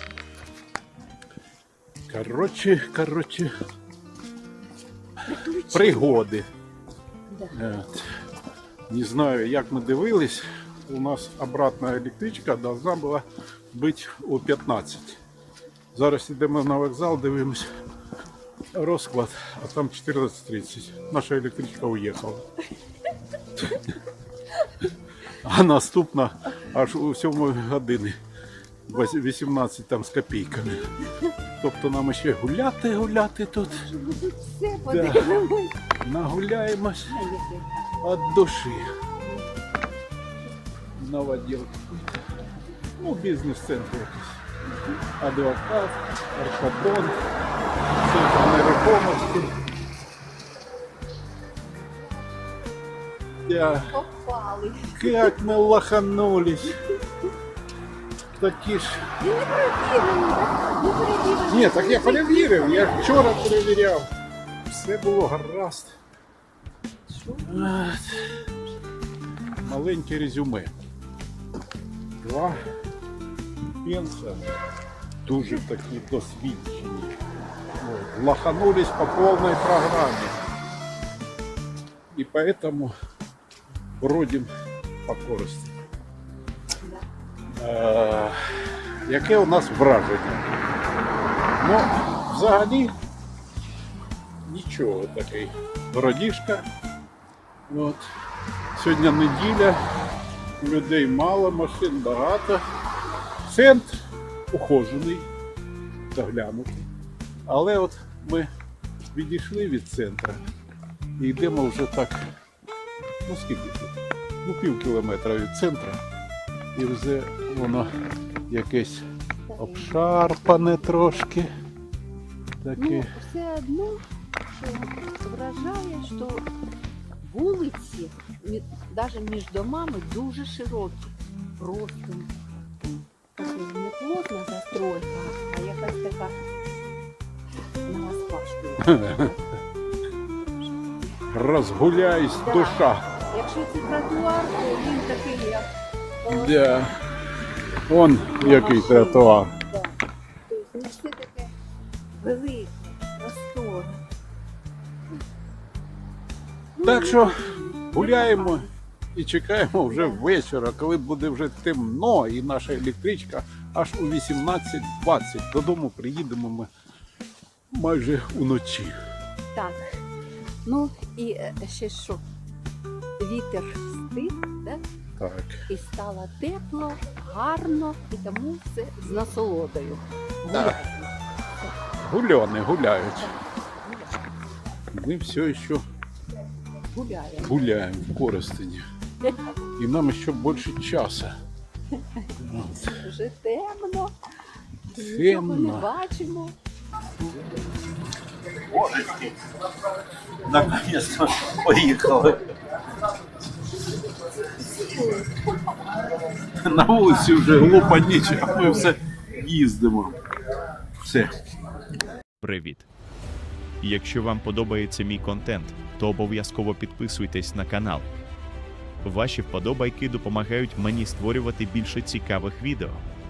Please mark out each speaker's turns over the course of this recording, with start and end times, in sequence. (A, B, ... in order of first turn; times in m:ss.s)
0:02.1-0:03.5 A
0:05.2-0:06.1 B
0:05.7-0:06.5 A
0:07.3-0:07.6 B
0:07.5-0:08.1 A
0:08.9-0:15.2 A
0:15.9-0:17.7 A
0:18.7-0:22.4 A
0:23.6-0:23.9 A
0:25.3-0:28.2 A
0:28.8-0:30.9 A
0:31.6-0:33.8 A
0:33.7-0:35.8 B
0:34.8-0:35.4 A
0:36.0-0:37.2 A
0:37.1-0:38.0 B
0:38.0-0:38.9 A
0:39.2-0:39.5 B
0:40.9-0:42.2 A
0:43.0-0:44.4 A
0:44.7-0:45.0 B
0:45.2-0:47.2 A
0:47.9-0:49.6 A
0:51.7-0:52.5 B
0:53.4-0:54.0 A
0:53.9-0:55.4 B
0:54.9-0:56.8 A
0:58.3-0:59.1 A
0:59.2-1:03.2 B
1:01.5-1:04.1 A
1:04.6-1:06.0 A
1:07.0-1:07.8 B
1:07.4-1:08.4 A
1:09.6-1:10.8 A
1:12.2-1:12.6 A
1:13.8-1:14.5 A
1:15.2-1:17.2 A
1:17.8-1:20.4 A
1:22.1-1:22.9 A
1:24.0-1:24.5 A
1:25.0-1:25.7 A
1:27.5-1:30.6 A
1:31.6-1:32.9 A
1:34.4-1:36.6 A
1:37.7-1:38.1 A
1:38.7-1:39.8 A
1:40.6-1:42.6 A
1:43.4-1:45.3 A
1:46.1-1:46.9 A
1:47.4-1:48.5 A
1:49.1-1:50.4 A
1:51.2-1:52.3 A
1:53.2-1:56.0 A
1:56.7-1:57.9 A
1:58.5-2:01.5 A
1:59.4-2:00.0 B
2:02.6-2:03.1 A
2:02.8-2:06.4 B
2:07.2-2:12.4 B
2:13.3-2:16.4 B
2:17.8-2:19.4 B
2:18.8-2:19.4 A
2:20.4-2:21.2 B
2:21.3-2:23.0 A
2:22.4-2:25.7 B
2:26.2-2:26.6 B
2:26.3-2:27.0 A
2:27.9-2:29.5 A
2:28.4-2:29.9 B
2:30.5-2:31.5 B
2:32.1-2:34.0 B
2:36.7-2:38.7 B
2:36.8-2:46.7 A
2:39.9-2:40.2 B
2:47.7-2:49.0 A
2:49.5-2:49.9 B
2:50.6-2:52.2 B
2:53.2-2:54.8 B
2:55.2-2:55.6 A
2:55.7-3:01.1 B
3:00.5-3:00.8 A
3:02.0-3:03.3 A
3:03.2-3:04.4 B
3:04.9-3:05.8 A
3:06.9-3:07.6 B
3:07.4-3:08.9 A
3:09.8-3:11.3 A
3:12.0-3:12.3 B
3:12.4-3:13.0 A
3:12.9-3:14.1 B
3:14.8-3:16.5 B
3:14.9-3:15.9 A
3:18.5-3:19.5 A
3:20.3-3:22.6 A
3:25.0-3:25.3 B
3:26.5-3:30.2 A
3:31.0-3:31.4 A
3:32.4-3:32.9 C
3:33.8-3:38.1 C
3:39.0-3:43.0 C